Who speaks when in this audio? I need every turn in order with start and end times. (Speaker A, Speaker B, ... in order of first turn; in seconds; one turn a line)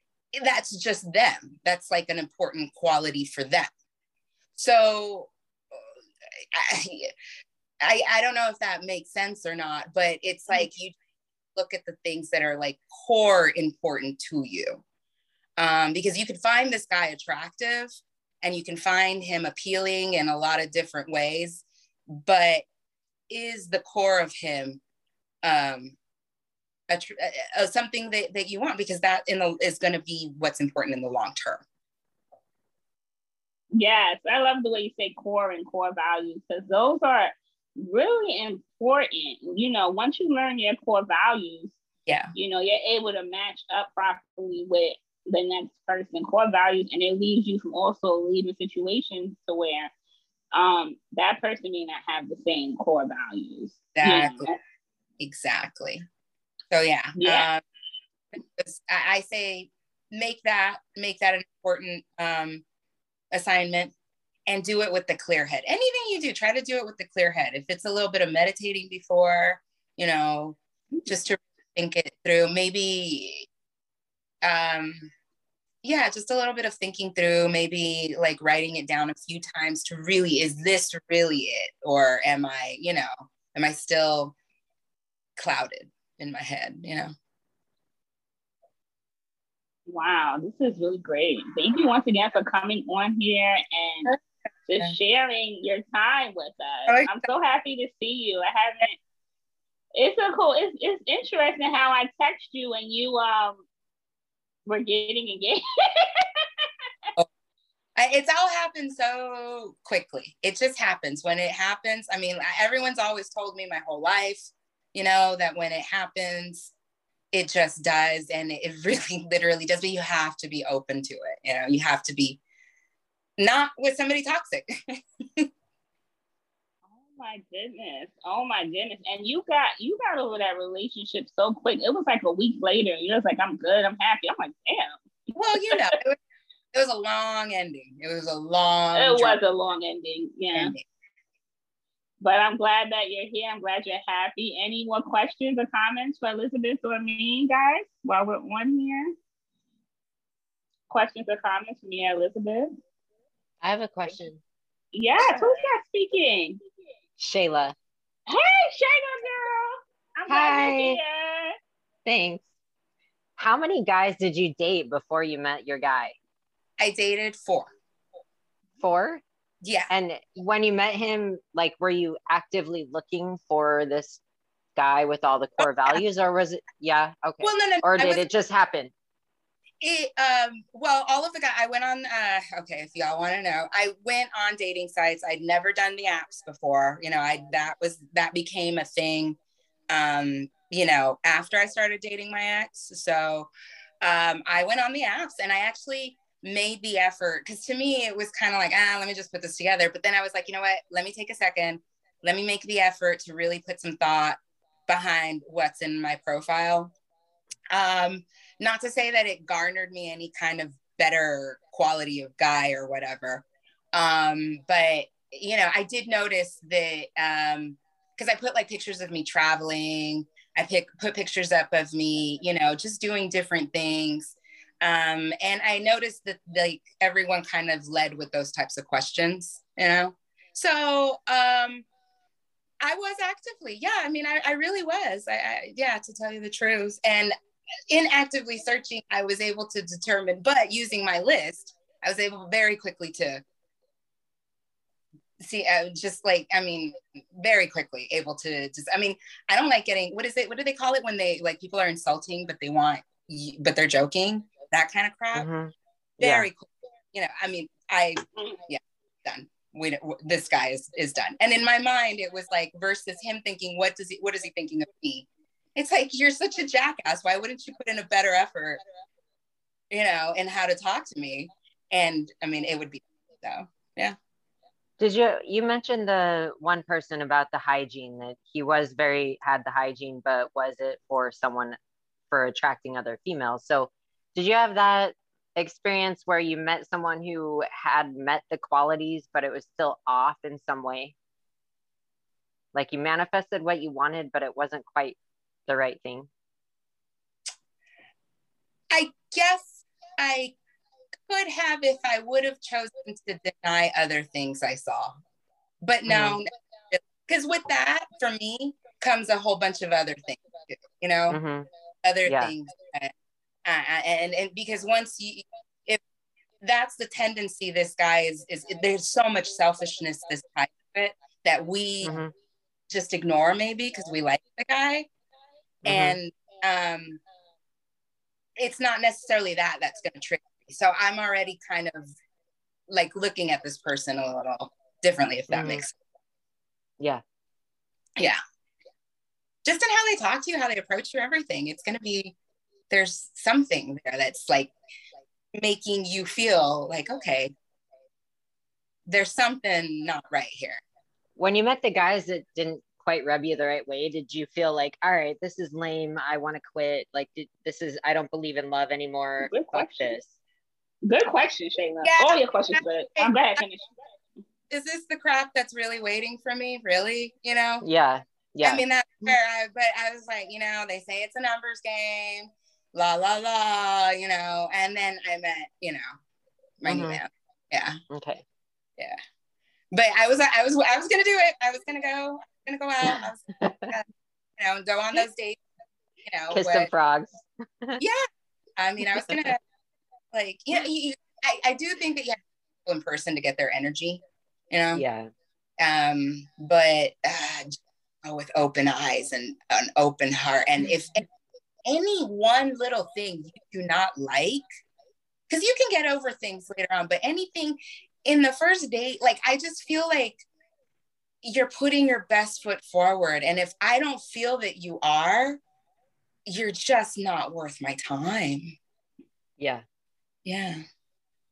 Speaker A: 0.3-3.7
Speaker A: 4.5-5.8
Speaker A: 6.4-7.1
Speaker A: 7.8-10.9
Speaker A: 11.6-14.8
Speaker A: 15.6-22.6
Speaker A: 23.3-24.8
Speaker A: 25.4-25.9
Speaker A: 26.9-31.6
Speaker B: 33.7-41.8
Speaker A: 42.0-42.3
Speaker B: 42.3-49.9
Speaker B: 50.5-54.5
Speaker A: 53.9-54.5
Speaker A: 55.2-56.0
Speaker A: 56.7-57.6
Speaker B: 57.2-57.5
Speaker A: 58.6-62.6
Speaker A: 63.3-63.9
Speaker A: 64.5-73.5
Speaker A: 74.4-75.1
Speaker A: 75.8-84.3
Speaker A: 85.4-87.1
Speaker B: 89.9-94.1
Speaker B: 94.7-99.0
Speaker A: 96.9-97.2
Speaker B: 100.0-103.6
Speaker B: 104.7-106.7
Speaker A: 108.0-116.7
Speaker A: 117.3-122.4
Speaker A: 123.4-124.7
Speaker B: 126.9-135.0
Speaker A: 135.3-136.2
Speaker B: 135.5-135.8
Speaker A: 136.7-139.4
Speaker B: 138.9-140.7
Speaker A: 140.5-140.8
Speaker B: 142.2-149.1
Speaker B: 150.9-152.7
Speaker C: 153.6-154.4
Speaker B: 154.9-156.6
Speaker C: 155.2-155.5
Speaker C: 157.2-157.8
Speaker B: 158.3-161.5
Speaker C: 160.3-161.0
Speaker C: 162.0-162.5
Speaker C: 163.4-166.1
Speaker A: 166.8-167.7
Speaker C: 168.8-169.2
Speaker A: 169.6-169.9
Speaker C: 169.9-174.2
Speaker C: 174.8-178.9
Speaker A: 175.6-176.0
Speaker A: 177.4-178.3
Speaker A: 179.8-189.4
Speaker A: 189.9-193.5
Speaker A: 194.0-206.9
Speaker A: 207.7-231.8
Speaker A: 232.8-237.3
Speaker A: 237.9-243.4
Speaker A: 245.4-255.5
Speaker C: 255.3-256.5
Speaker A: 256.2-268.8
Speaker A: 269.9-274.1
Speaker C: 275.0-281.8
Speaker C: 282.3-291.1
Speaker C: 292.7-296.3
Speaker A: 298.9-300.5
Speaker A: 301.3-305.2
Speaker A: 305.8-311.4
Speaker C: 306.1-306.4
Speaker C: 311.3-311.7
Speaker A: 312.0-313.1
Speaker C: 312.2-312.5
Speaker A: 313.6-316.0
Speaker A: 316.6-322.2
Speaker C: 322.0-322.3
Speaker A: 322.9-325.1
Speaker A: 325.8-327.2
Speaker C: 325.8-326.2
Speaker A: 328.6-332.1
Speaker A: 332.9-335.9
Speaker C: 335.5-335.8
Speaker A: 339.6-342.3
Speaker A: 342.9-344.7
Speaker A: 345.6-347.5
Speaker A: 349.1-350.8
Speaker C: 351.4-360.3
Speaker B: 359.4-360.2
Speaker B: 361.1-363.9
Speaker A: 362.0-363.6
Speaker A: 364.7-367.8
Speaker C: 367.8-369.4
Speaker A: 368.6-376.1
Speaker A: 376.8-377.9
Speaker C: 376.9-377.2
Speaker C: 378.1-378.4
Speaker A: 379.9-384.1
Speaker C: 383.0-383.9
Speaker A: 384.6-385.6
Speaker A: 386.2-386.9
Speaker C: 386.5-388.0
Speaker A: 388.0-388.2
Speaker A: 388.8-389.6
Speaker C: 389.2-389.5
Speaker A: 390.3-395.0
Speaker C: 394.9-395.3
Speaker A: 395.8-397.7
Speaker A: 398.2-401.2
Speaker A: 401.9-404.6
Speaker A: 405.5-410.4
Speaker A: 411.4-415.6
Speaker A: 416.4-418.8
Speaker C: 419.6-419.8
Speaker A: 420.4-420.8